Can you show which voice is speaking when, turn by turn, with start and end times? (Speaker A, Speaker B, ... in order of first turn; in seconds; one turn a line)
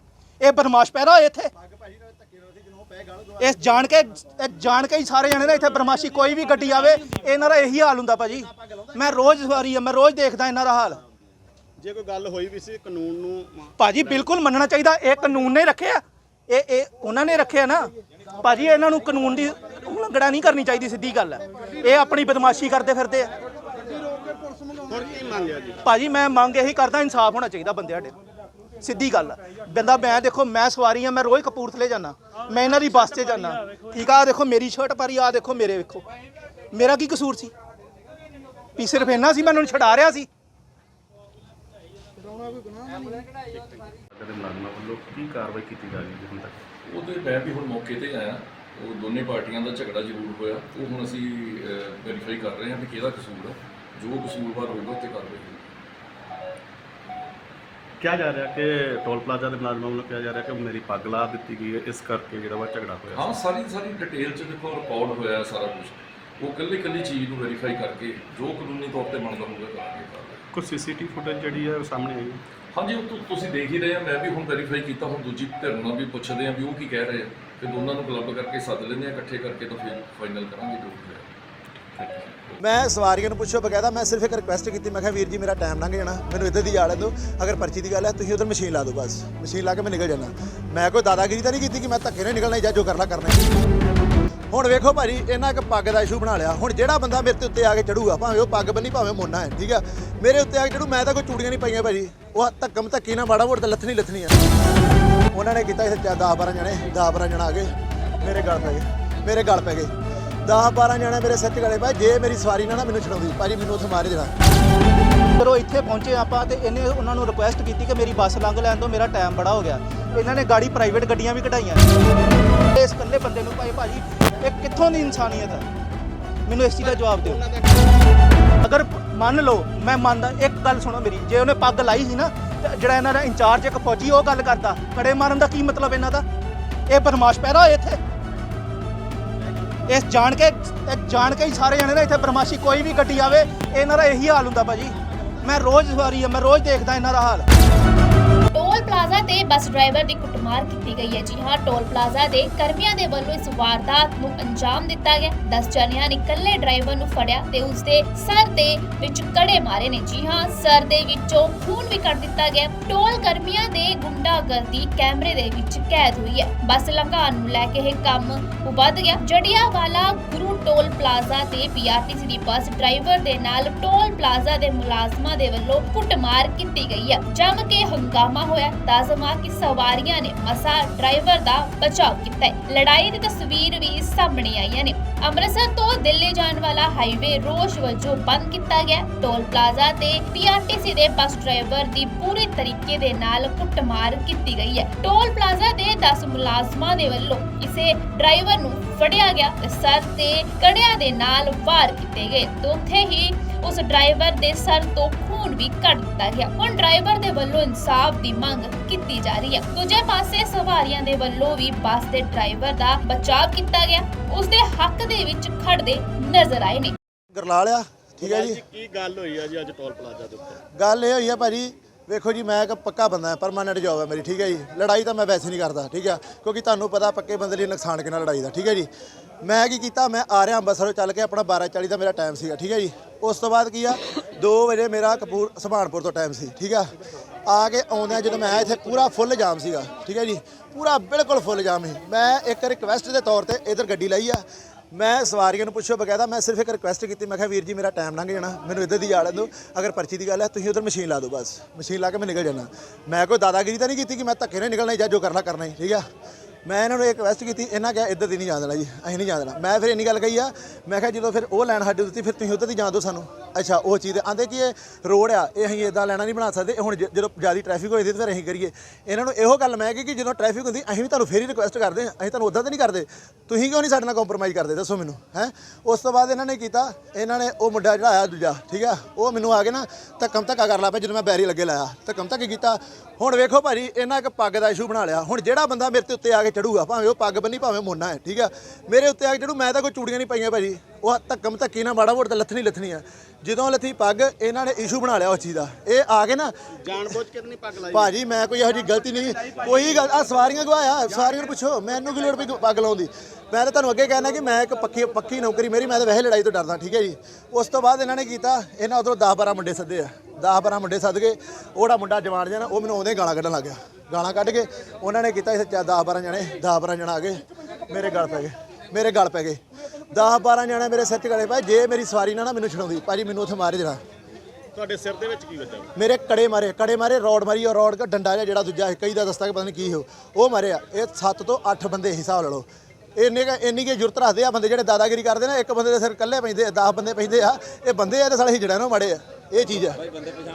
Speaker A: 0.4-1.5
Speaker B: 3.0-3.3
Speaker A: 3.4-11.0
Speaker C: 11.8-14.2
Speaker A: 13.8-23.3
Speaker C: 24.8-25.8
Speaker A: 25.8-28.1
Speaker A: 28.8-36.0
Speaker A: 36.7-37.5
Speaker A: 38.8-40.3
Speaker D: 44.1-46.6
Speaker E: 46.9-53.5
Speaker F: 52.9-53.4
Speaker F: 54.0-54.5
Speaker E: 54.1-55.6
Speaker D: 58.0-63.4
Speaker E: 63.1-70.4
Speaker D: 70.5-72.4
Speaker E: 72.8-81.2
Speaker E: 82.1-82.6
Speaker B: 82.6-93.6
Speaker B: 94.5-104.4
Speaker B: 105.3-109.9
Speaker B: 110.4-114.3
Speaker A: 115.4-122.0
Speaker A: 122.7-125.7
Speaker A: 126.5-127.4
Speaker C: 126.8-128.0
Speaker A: 128.6-136.2
Speaker A: 136.9-138.0
Speaker A: 139.9-147.5
Speaker F: 148.5-216.9
Speaker B: 217.3-218.6
Speaker C: 218.2-220.6
Speaker B: 220.7-228.9
Speaker B: 229.4-236.9
Speaker B: 237.5-256.0
Speaker B: 256.6-296.5
Speaker C: 296.8-298.1
Speaker B: 297.9-319.6
Speaker B: 320.1-324.0
Speaker C: 324.7-325.9
Speaker B: 325.9-340.0